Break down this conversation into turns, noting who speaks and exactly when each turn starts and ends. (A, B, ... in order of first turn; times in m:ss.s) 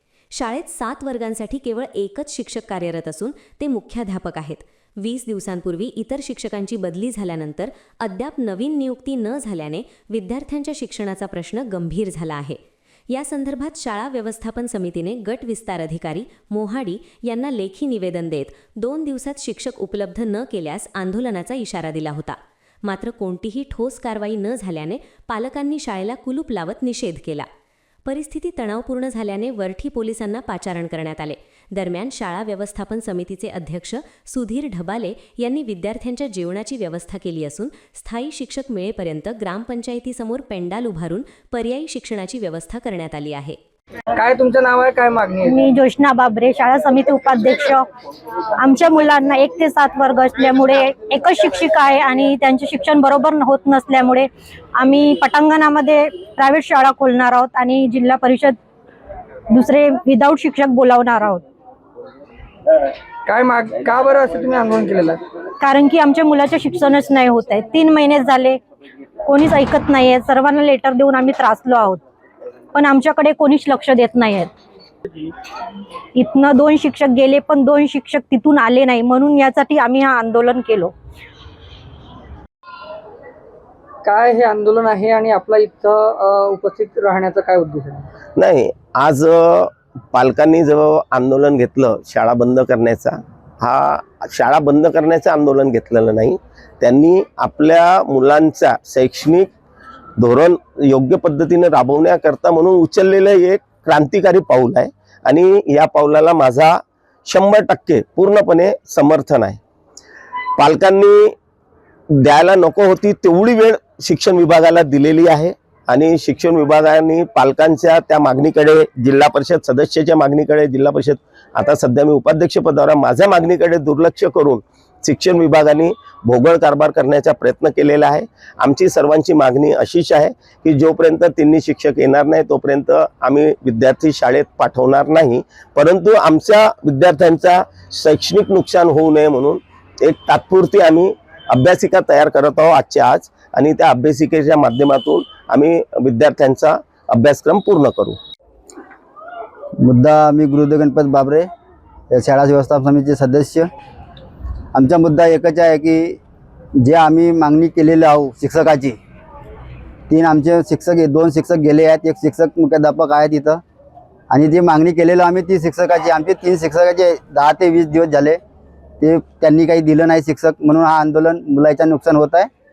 0:00.4-0:12.6 A
0:13.1-0:27.5 A
0:28.0-0:43.6 A
0:44.2-0:45.6 B
0:45.5-0:47.9 C
0:48.6-0:58.6 C
0:59.5-1:01.4 C
1:03.3-1:05.2 B
1:05.6-1:08.6 C
1:09.2-1:12.0 C
1:12.8-1:14.5 C
1:16.1-1:20.9 C
1:24.0-1:28.0 B
1:28.4-1:39.5 D
1:40.2-1:49.6 D
1:50.6-1:51.3 D
1:52.1-2:28.2 D
2:29.8-2:31.5 E
2:32.1-2:33.7 E
2:34.7-2:36.2 E
2:36.8-2:39.0 E
2:40.1-2:43.6 E
2:44.3-2:48.4 E
2:49.0-2:52.5 E